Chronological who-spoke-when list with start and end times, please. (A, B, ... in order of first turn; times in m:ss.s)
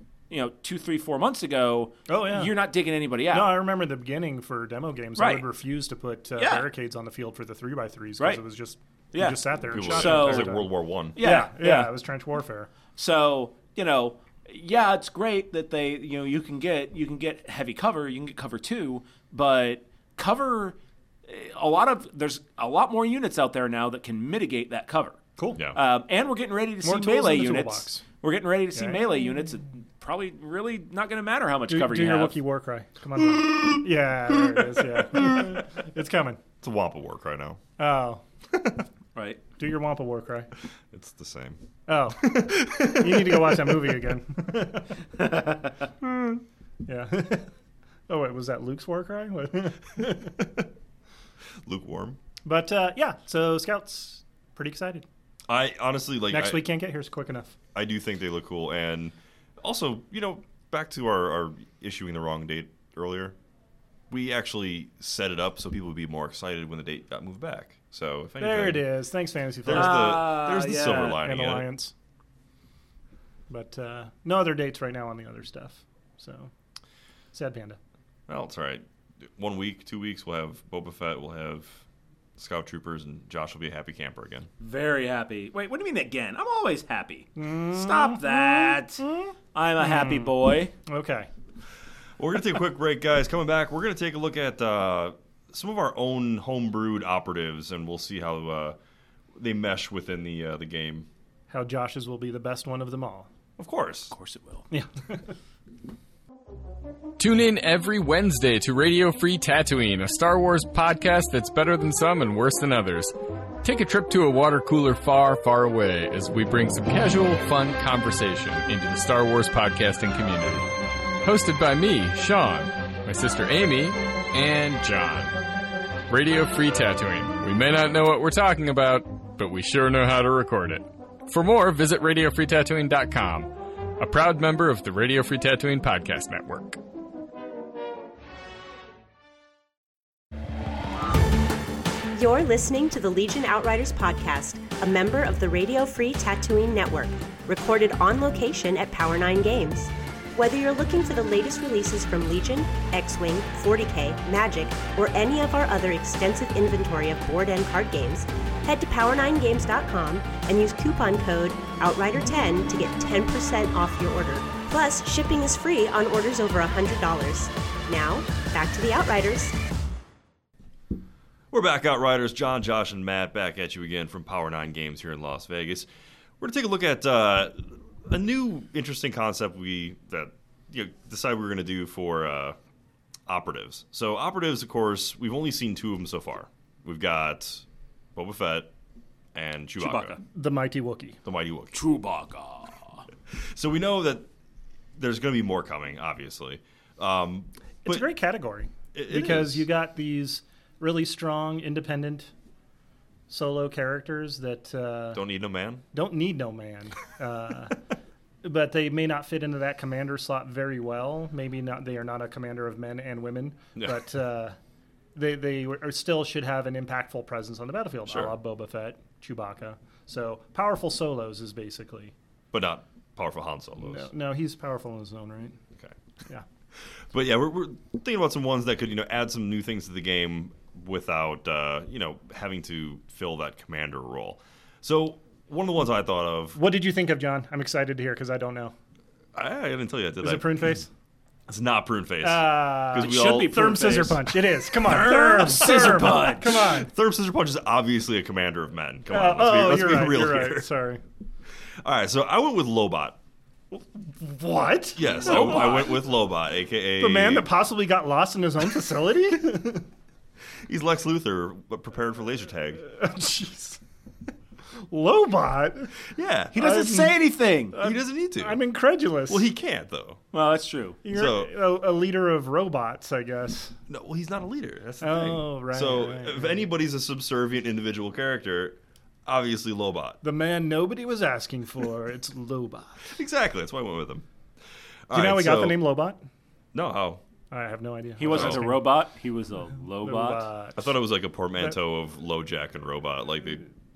0:00.3-0:03.6 A
0:02.1-0:02.6 B
0:03.3-0:12.7 B
0:05.2-0:05.4 A
0:06.4-0:06.7 A
0:09.1-0:10.6 A
0:09.7-0:11.2 C
0:11.2-0:12.0 A
0:13.0-0:25.2 A
0:25.7-0:32.4 A
0:26.8-0:28.0 B
0:28.8-0:29.2 B
0:31.7-0:36.4 B
0:33.4-0:33.8 C
0:34.6-0:35.6 C
0:36.6-0:37.6 C
0:37.8-0:38.8 B
0:39.2-0:39.4 A
0:39.6-0:40.5 B
0:40.9-0:41.6 C
0:41.9-0:44.9 B
0:42.2-0:43.9 C
0:46.0-0:47.5 B
0:48.1-0:50.5 B
0:51.6-0:52.2 C
0:52.4-0:55.1 B
0:55.5-0:56.7 C
0:56.3-0:57.6 B
0:57.7-1:03.4 C
1:04.1-1:08.9 C
1:08.4-1:11.9 B
1:09.6-1:11.7 C
1:09.7-1:11.2 A
1:13.5-1:16.5 B
1:17.3-1:17.8 B
1:18.3-1:21.8 C
1:22.4-1:24.5 C
1:24.6-1:30.7 A
1:27.4-1:30.3 B
1:30.9-1:31.3 B
1:32.2-1:38.8 C
1:39.3-1:41.1 C
1:41.5-1:43.3 B
1:43.6-1:44.1 C
1:44.1-1:44.7 A
1:44.7-1:45.2 B
1:47.2-2:00.7 D
2:01.2-2:05.3 D
2:06.1-2:16.8 D
2:22.1-2:49.6 E
2:51.5-2:55.9 C
2:56.4-3:02.6 C
3:03.3-3:08.7 C
3:09.3-3:10.2 C
3:09.8-3:10.2 A
3:10.3-3:11.2 B
3:11.2-3:11.8 C
3:11.7-3:13.0 A
3:13.3-3:14.3 C
3:15.0-3:18.1 C
3:17.8-3:22.3 B
3:18.9-3:19.7 C
3:23.3-3:25.2 B
3:25.1-3:25.8 C
3:25.9-3:27.8 B
3:28.4-3:34.6 B
3:35.2-3:42.1 B
3:38.1-3:38.4 C
3:42.5-3:44.1 C
3:43.8-3:45.6 B
3:46.8-3:56.6 C
3:56.6-3:58.7 B
3:59.3-4:00.8 C
4:00.2-4:00.9 B
4:01.5-4:03.7 C
4:02.2-4:06.9 B
4:03.0-4:06.7 A
4:06.7-4:10.7 C
4:09.1-4:11.0 B
4:11.8-4:13.2 C
4:13.7-4:15.9 B
4:15.0-4:17.5 C
4:15.2-4:16.0 A
4:17.0-4:19.9 B
4:20.7-4:22.8 C
4:22.8-4:23.8 B
4:24.9-4:25.9 B
4:26.0-4:26.6 C
4:26.5-4:27.8 A
4:26.6-4:27.2 B
4:27.7-4:29.5 B
4:27.8-4:28.6 C
4:29.3-4:30.2 C
4:30.3-4:31.0 A
4:31.0-4:33.8 B
4:31.1-4:31.6 C
4:33.9-4:40.2 C
4:35.0-4:36.7 B
4:40.2-4:43.1 B
4:43.0-4:44.3 C
4:45.1-4:45.9 C
4:45.1-4:46.2 B
4:46.7-4:47.2 C
4:47.5-4:48.8 B
4:48.2-4:50.5 A
4:48.3-4:48.6 C
4:50.0-4:50.9 B
4:50.8-4:53.7 C